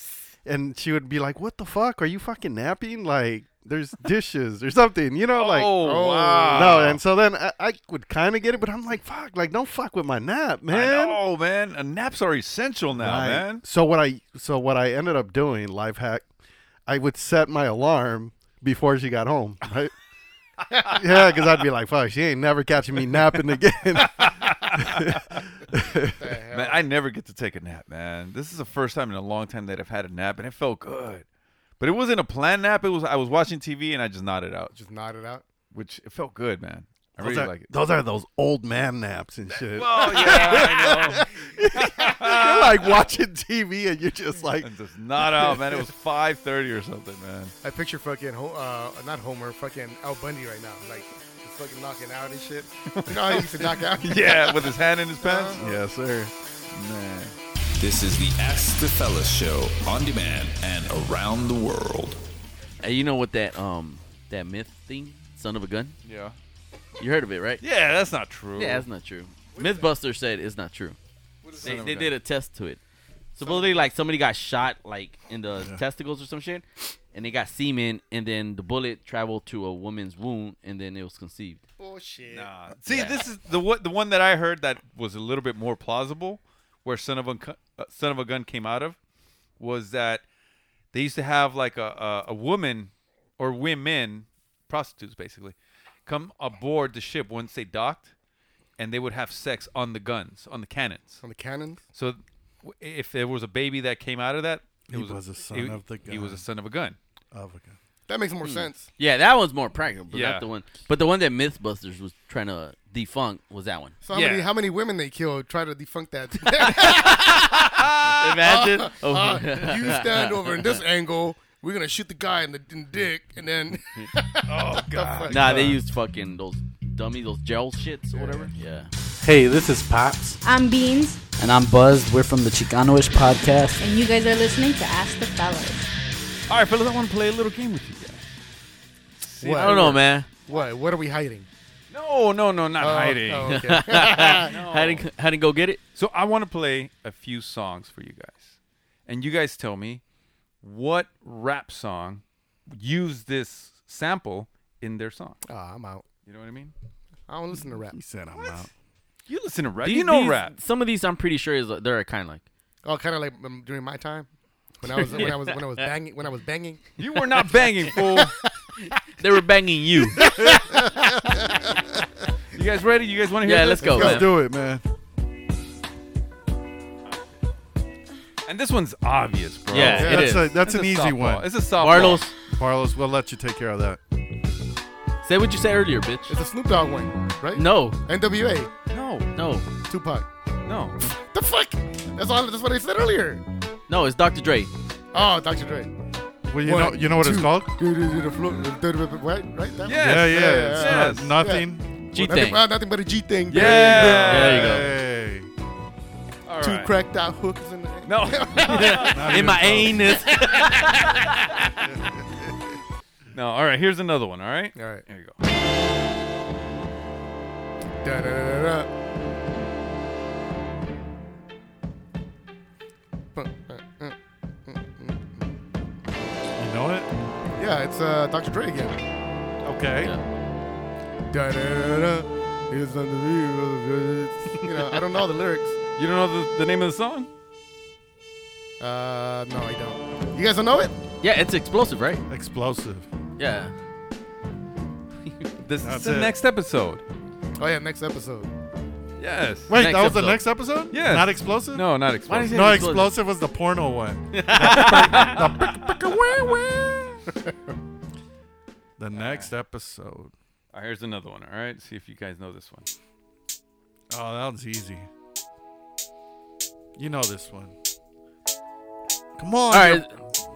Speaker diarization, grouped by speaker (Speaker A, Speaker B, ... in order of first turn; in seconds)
Speaker A: 0.5-5.8, 6.5-11.2, 12.9-16.3, 16.9-19.9, 20.9-26.2, 37.2-45.9, 55.6-56.3, 75.6-75.8, 104.9-106.5, 107.3-107.8, 129.3-130.1, 157.9-158.7, 170.2-171.4, 174.0-174.8, 179.8-181.5, 182.6-184.0, 196.5-197.8, 200.0-201.9, 203.5-205.5, 209.1-210.1, 226.6-227.1, 229.6-230.1, 242.3-243.1, 245.8-246.3, 249.7-251.8, 252.5-257.2, 259.0-260.3, 264.1-265.1, 267.0-267.8, 269.4-270.1
Speaker B: 5.4-7.0, 10.7-13.6, 23.9-25.4, 26.5-31.2, 31.8-34.7, 35.7-37.7, 39.5-43.0, 44.6-47.5, 52.9-55.6, 56.7-57.4, 66.0-66.4, 67.6-68.8, 71.4-72.1, 82.3-89.0, 89.6-90.2, 90.9-95.5, 96.1-98.1, 98.8-101.2, 102.0-107.0, 110.1-110.5, 114.1-114.5, 117.7-118.2, 124.5-125.6, 136.5-138.3, 139.2-140.7, 141.9-145.1, 146.0-150.0, 150.6-155.4, 156.3-156.7, 159.3-160.5, 167.0-168.3, 172.5-174.3, 177.1-177.3, 178.5-182.3, 188.9-189.3, 190.7-191.0, 199.8-201.4, 203.5-204.8, 206.5-206.9, 208.1-209.4, 213.3-215.4, 236.0-237.3, 245.6-247.0, 249.2-249.8, 250.9-252.8, 254.6-255.8, 259.1-259.5, 260.7-262.9
Speaker C: 5.8-6.9, 26.2-26.8, 34.7-35.4, 40.2-40.9, 47.6-55.6, 69.6-69.8, 73.4-73.9, 81.8-82.5, 101.2-101.8, 108.1-108.9, 114.0-125.8, 128.1-128.5, 139.4-141.5, 142.8-144.5, 155.5-156.0, 157.3-158.0, 162.8-164.3, 164.8-168.3, 170.2-171.5, 173.8-174.2, 186.3-188.7, 189.9-190.3, 191.3-193.4, 195.1-195.9, 196.6-204.6, 206.6-209.2, 210.1-211.1, 214.8-215.0, 218.0-218.9, 223.3-225.4, 227.6-229.0, 231.3-235.8, 238.8-241.0, 247.6-248.5
Speaker D: 57.8-62.2
Speaker E: 62.8-66.0, 67.0-67.6, 68.6-71.0, 71.6-72.8, 73.3-81.6, 82.9-83.1, 108.4-114.0, 116.8-117.3, 118.2-120.7, 125.3-128.9, 139.6-140.3, 143.5-145.8, 159.8-162.4, 164.9-165.5, 169.1-170.3, 173.4-174.3, 179.7-180.5, 181.8-182.3, 185.2-186.4, 187.6-188.0, 189.3-189.7, 193.9-194.7, 202.1-202.6, 203.8-204.9, 208.6-211.5, 241.2-242.2, 243.4-243.8, 249.7-250.4, 252.3-253.2, 254.3-255.4, 269.7-270.2
Speaker F: 129.2-130.3, 131.4-133.8
Speaker G: 130.4-131.2, 133.8-135.9